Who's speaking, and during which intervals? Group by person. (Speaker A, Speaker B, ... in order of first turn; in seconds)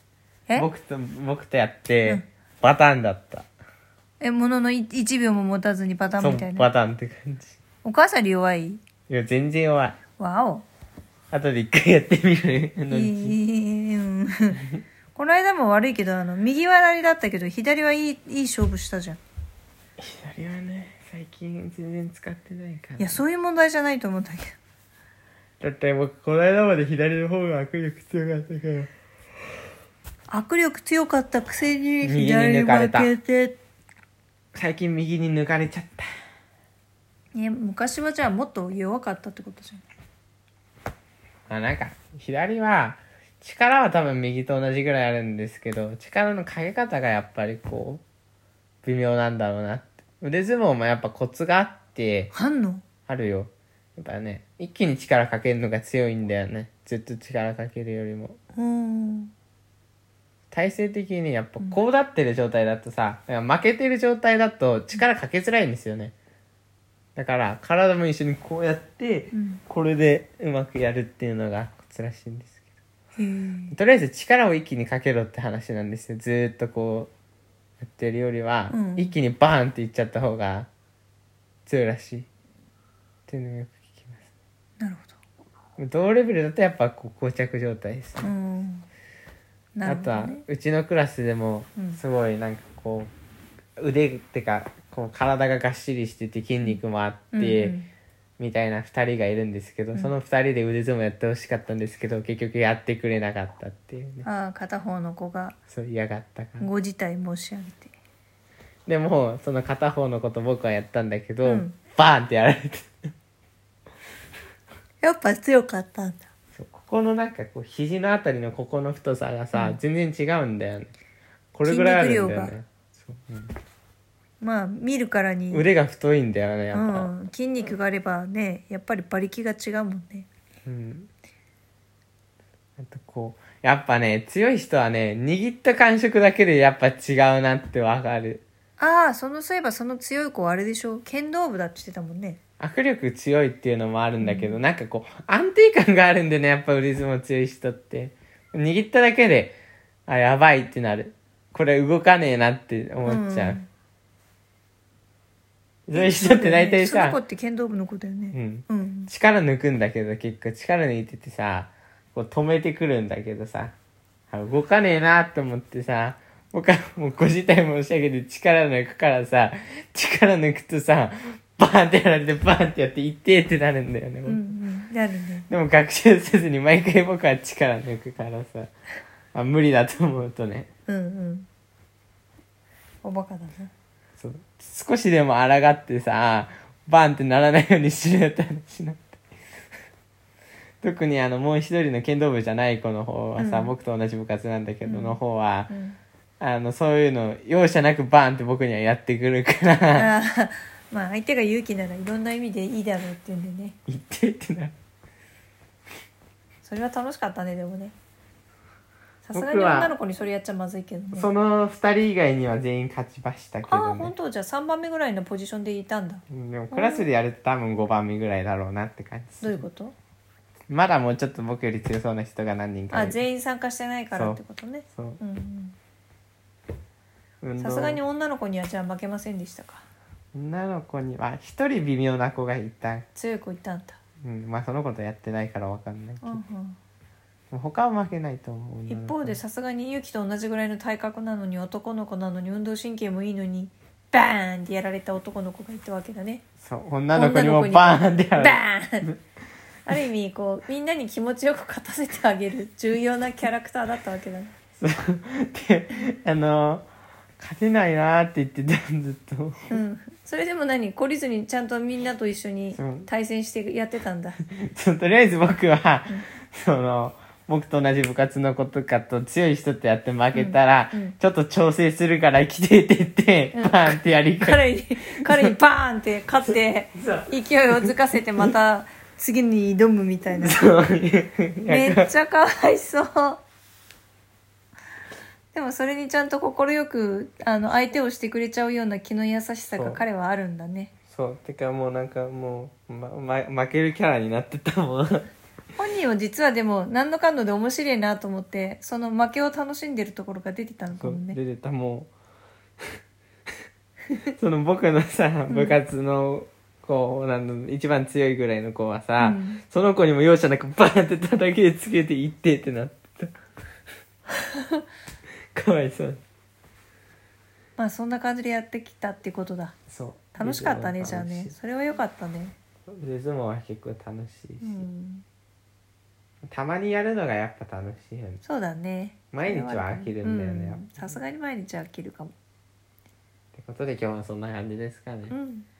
Speaker A: 0.6-3.5, 6.2-7.6, 9.1-10.0, 11.3-13.4, 20.0-23.2, 25.6-28.9, 32.0-33.1, 34.5-36.1, 41.5-48.0, 48.8-52.3, 53.1-58.4, 60.5-66.1, 67.2-72.6, 73.7-77.1, 77.8-80.7, 81.7-82.3, 83.3-84.2, 85.8-88.3, 89.8-93.1, 93.8-97.8, 98.4-104.3, 105.7-106.7, 108.9-112.9, 116.5-120.9, 121.5-123.5, 125.5-127.1, 130.7-131.1, 132.8-138.4, 142.6-149.6, 150.1-153.6, 155.9-157.2, 158.3-163.7, 164.3-174.4, 175.5-178.7, 179.3-180.7, 184.2-189.2, 190.8-195.7, 196.4-200.1, 203.9-204.8, 209.3-209.9, 211.1-214.1, 216.3-219.6, 220.7-223.2, 224.1-224.4, 224.9-225.2, 227.4-228.0, 230.3-233.1, 234.2-236.4, 237.5-239.4, 246.6-249.2, 254.8-256.9, 257.4-259.8, 262.8-263.1, 264.5-275.5, 277.0-277.9, 280.4-282.1, 289.7-290.0, 291.1-295.2, 300.9-302.1, 304.4-313.3, 315.6-316.2, 319.9-321.6, 322.9-324.9, 326.5-328.4, 329.3-331.2, 333.5-335.3
Speaker B: 4.2-6.7, 7.8-8.8, 10.2-10.7, 12.9-14.6, 15.2-19.2, 23.0-24.5, 30.3-33.6, 37.3-39.8, 52.3-52.8, 58.5-59.3, 69.3-69.6, 73.2-73.8, 78.7-79.2, 84.8-85.2, 88.2-88.9, 89.8-90.4, 91.8-92.0, 97.3-97.9, 104.2-105.6, 106.6-107.9, 111.4-111.8, 115.0-116.2, 121.7-122.5, 124.4-125.7, 126.7-130.3, 138.8-142.4, 144.2-144.6, 153.1-153.7, 155.9-159.1, 174.3-175.5, 180.9-181.5, 183.0-183.7, 193.4-193.7, 194.8-195.2, 195.7-196.0, 199.9-203.8, 206.6-207.9, 209.2-211.3, 213.7-217.1, 219.4-219.9, 222.9-225.8, 227.6-229.9, 233.2-234.0, 236.2-236.8, 238.9-246.4, 247.1-249.1, 249.9-254.5, 259.7-264.4, 270.3-271.2, 273.5-280.6, 281.7-283.4, 285.5-290.9, 295.8-301.4, 305.5-305.8, 309.2-309.6, 317.8-319.8, 320.4-322.6, 324.6-325.2, 328.4-332.4, 335.3-335.7